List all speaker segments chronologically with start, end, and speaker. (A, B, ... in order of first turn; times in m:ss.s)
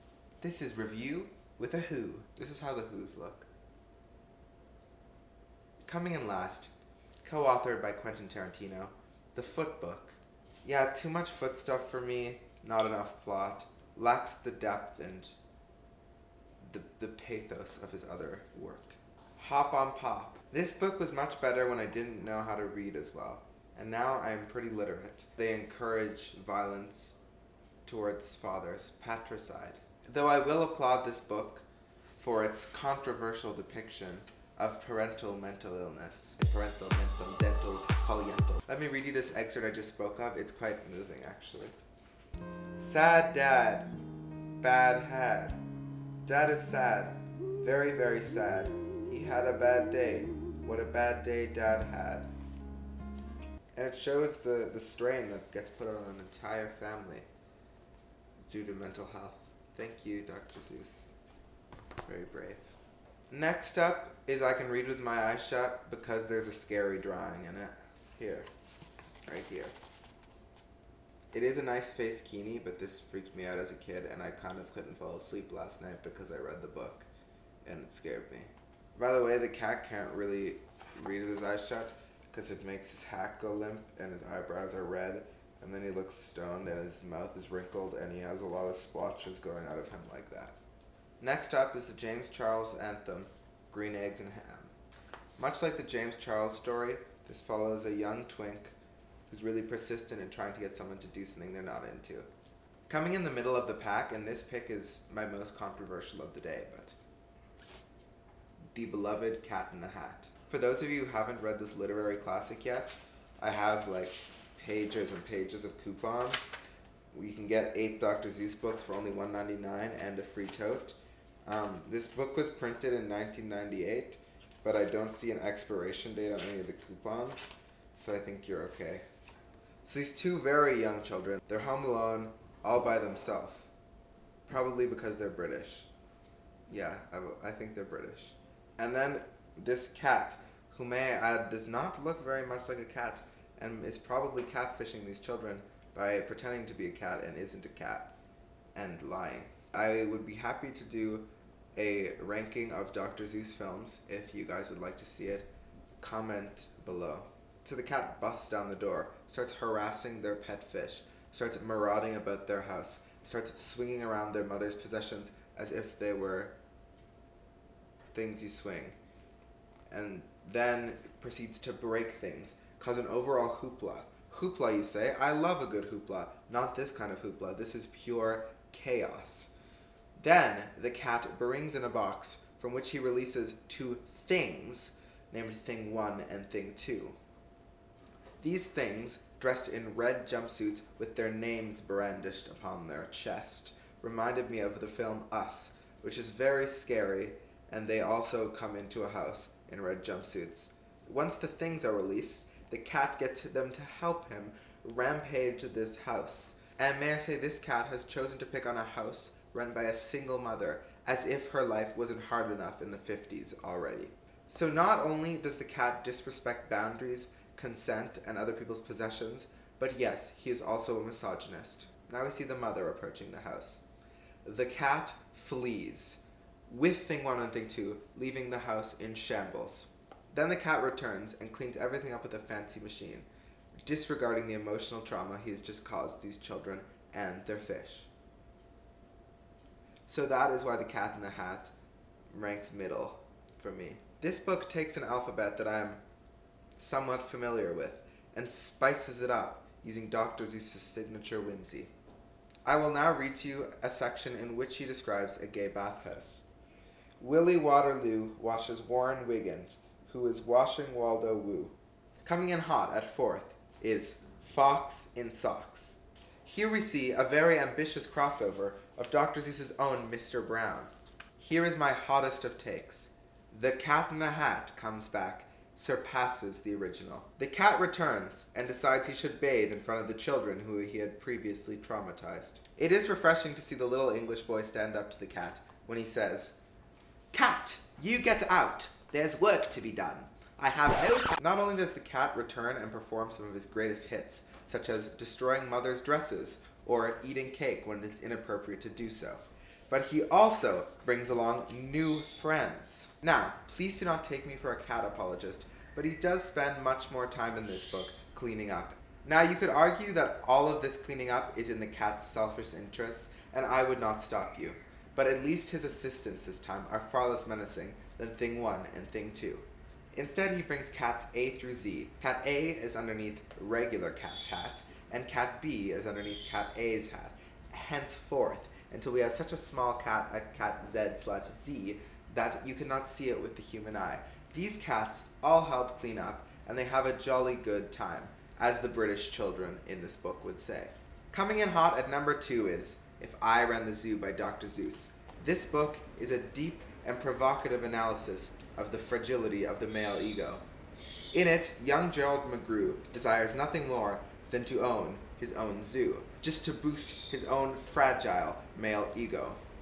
0:00.4-0:03.5 A
0:05.8-0:06.7 A
0:07.2-0:15.4 A
0:16.6-0:27.2 A
0:27.8-0:31.6 A
0:32.2-0:41.8 A
0:42.8-0:43.9 A
0:44.6-0:45.6 A
0:46.2-0:52.3 A
0:53.8-0:57.2 A
0:58.5-1:01.1 A
1:02.0-1:02.7 A
1:03.3-1:08.5 A
1:09.2-1:09.7 A
1:11.3-1:17.1 A
1:17.6-1:30.6 A
1:31.2-1:34.7 A
1:35.4-1:38.8 A
1:39.3-1:42.3 A
1:42.9-1:47.0 A
1:48.7-1:56.6 A
1:57.1-2:09.0 A
2:09.8-2:13.7 A
2:14.4-2:15.9 A
2:16.7-2:28.1 A
2:28.7-2:35.5 A
2:36.0-2:46.5 A
2:48.1-2:49.0 A
2:49.9-2:59.5 A
3:00.2-3:07.2 A
3:08.4-3:43.8 A
3:44.4-3:53.3 A
3:53.8-3:58.1 A
4:00.1-4:01.7 A
4:02.3-4:06.0 A
4:06.8-4:11.9 A
4:12.6-4:16.5 A
4:17.2-4:46.6 A
4:47.3-5:50.6 A
5:51.3-5:59.6 A